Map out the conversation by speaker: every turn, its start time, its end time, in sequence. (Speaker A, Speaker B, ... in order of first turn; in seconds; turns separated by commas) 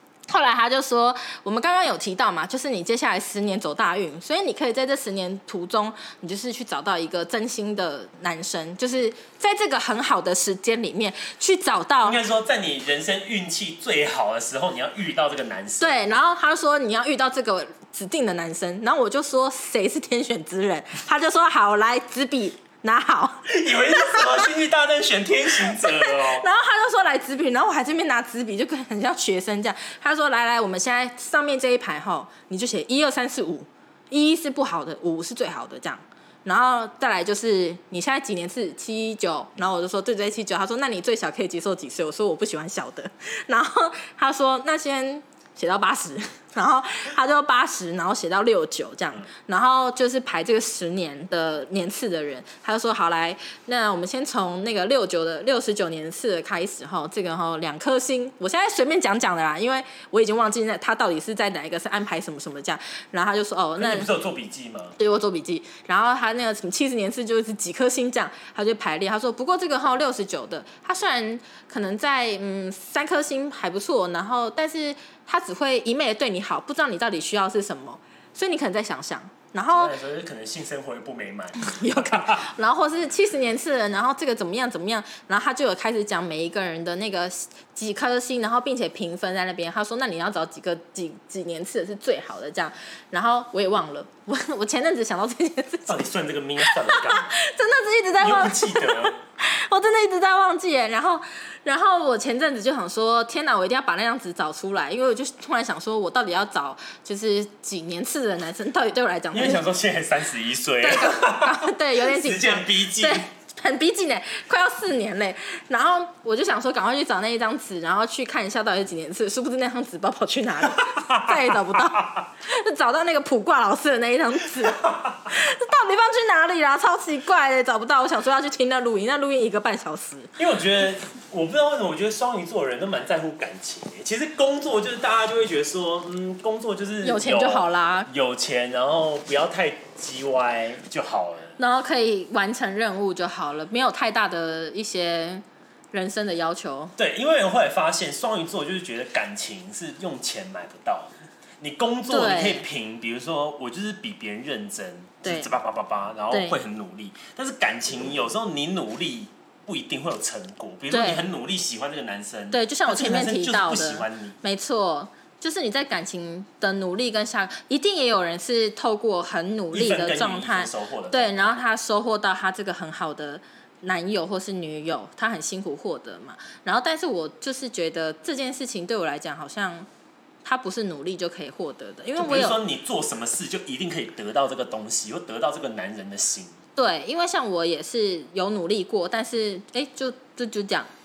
Speaker A: 0.3-12.2, Speaker B: 12.0-16.0, Speaker A: 15.8-24.5, Speaker B: 23.5-26.5, Speaker A: 25.5-64.1, Speaker B: 63.8-65.0, Speaker A: 65.0-80.0, Speaker B: 79.7-82.5, Speaker A: 81.6-96.0, Speaker B: 95.9-97.3, Speaker A: 96.6-109.6, Speaker B: 98.2-99.2, Speaker B: 109.3-113.2, Speaker A: 110.8-130.3, Speaker B: 120.8-122.2, Speaker B: 124.6-125.3, Speaker B: 130.4-141.6, Speaker A: 137.0-138.1, Speaker A: 141.6-146.9, Speaker B: 146.9-164.4, Speaker A: 152.1-152.6, Speaker A: 155.2-155.5, Speaker A: 156.3-156.6, Speaker A: 160.9-161.2, Speaker A: 162.5-179.9, Speaker B: 169.7-171.6, Speaker A: 180.4-182.6, Speaker B: 182.2-186.6, Speaker A: 186.8-190.9